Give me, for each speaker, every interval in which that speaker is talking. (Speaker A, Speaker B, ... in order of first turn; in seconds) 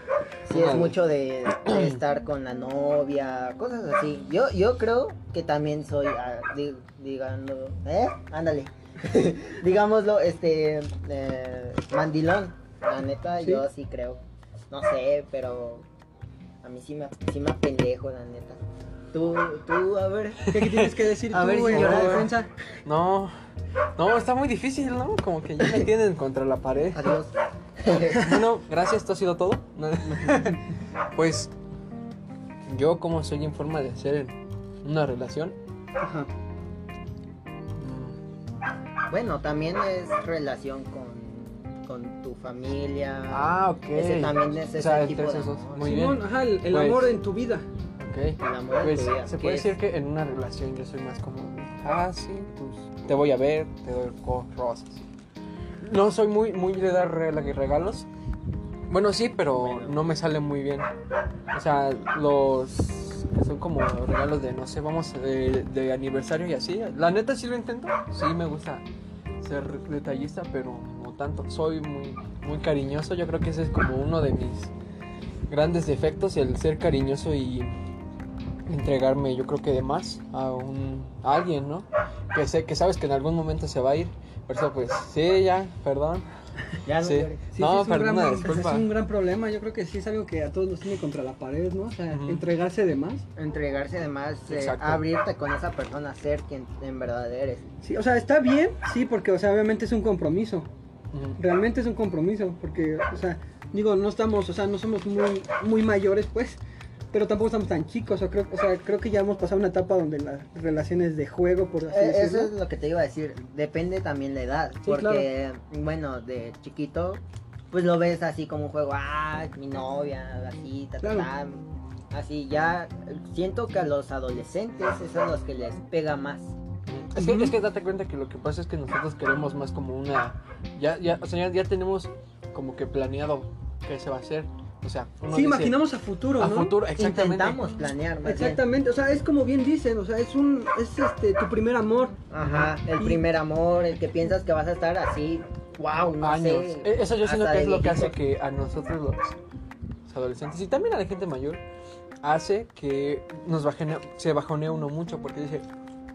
Speaker A: 0.4-15.8, 16.6-18.6, 19.1-20.5, 21.3-22.3, 26.9-28.4, 39.1-45.9, 48.4-49.7, 59.5-60.0, 86.8-87.4, 93.3-97.7, 111.9-126.5, 136.9-138.6, 142.3-148.2
Speaker B: 0.5-0.9, 1.6-2.0, 20.5-21.0, 21.7-22.3, 22.8-23.3, 24.0-27.2, 28.1-31.5, 32.6-35.6, 37.8-38.2, 43.3-47.2, 48.0-55.1, 55.8-58.1, 58.9-60.9, 61.5-68.8, 69.4-74.7, 75.5-77.8, 78.7-86.2, 87.0-88.9, 92.1-92.4, 94.5-95.0, 101.1-101.4, 126.8-135.8, 136.4-137.6, 142.4-142.7, 146.2-149.4, 150.1-151.6, 152.2-155.7
Speaker C: 20.5-22.5, 36.0-36.3, 45.8-47.6, 87.5-93.2, 97.8-100.7, 101.4-106.6, 107.1-112.5, 114.8-115.3, 121.0-121.3, 127.1-127.5, 135.3-136.7, 138.2-142.2